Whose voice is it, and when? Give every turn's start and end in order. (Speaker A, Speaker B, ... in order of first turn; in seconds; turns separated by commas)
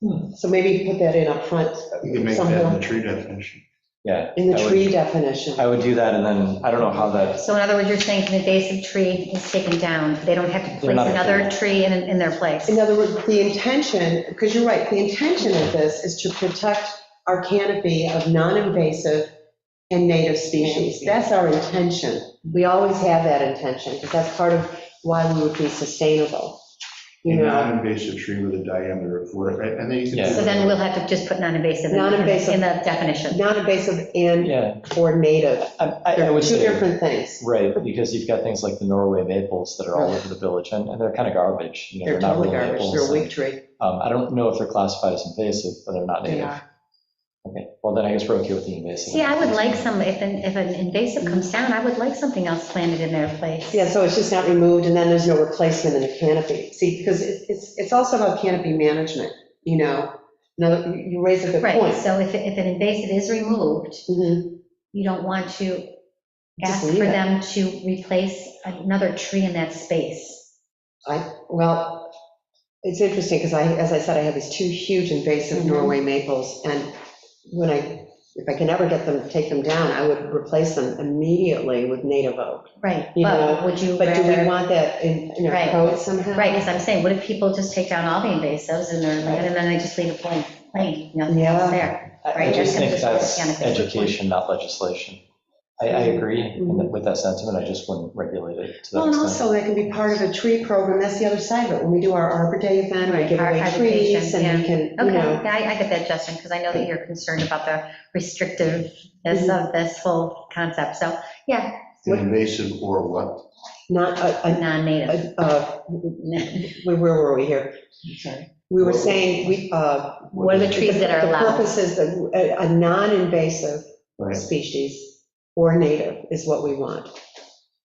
Speaker A: 0.2-2.8, Speaker B: 2.0-3.6, Speaker C: 4.0-5.0, Speaker A: 4.3-5.7, Speaker C: 5.5-7.4, Speaker D: 7.4-12.8, Speaker C: 10.8-11.6, Speaker A: 12.7-19.3, Speaker A: 19.9-26.6, Speaker A: 27.2-27.8, Speaker B: 27.2-30.8, Speaker C: 30.1-30.4, Speaker D: 30.3-33.4, Speaker A: 31.9-32.7, Speaker A: 33.3-37.4, Speaker C: 34.4-34.8, Speaker C: 35.7-46.6, Speaker A: 39.9-40.2, Speaker A: 42.0-43.6, Speaker A: 46.2-46.6, Speaker C: 47.4-49.9, Speaker D: 49.1-53.9, Speaker A: 51.2-51.5, Speaker A: 53.7-62.0, Speaker D: 61.6-64.1, Speaker A: 64.1-64.6, Speaker D: 64.9-65.9, Speaker D: 66.6-70.5, Speaker A: 66.6-67.2, Speaker A: 71.0-72.1, Speaker A: 72.8-76.9, Speaker D: 75.5-76.0, Speaker A: 77.5-86.7, Speaker D: 82.8-84.5, Speaker D: 85.5-94.1, Speaker A: 91.3-93.1, Speaker C: 92.3-95.2, Speaker C: 95.8-100.2, Speaker A: 95.9-96.9, Speaker A: 98.9-105.4, Speaker D: 103.0-111.8, Speaker A: 109.3-109.5, Speaker B: 112.0-113.4, Speaker A: 113.9-117.8, Speaker D: 114.5-115.2, Speaker D: 116.2-116.7, Speaker A: 118.7-127.1, Speaker B: 118.8-119.2, Speaker D: 120.3-121.7, Speaker B: 120.4-120.7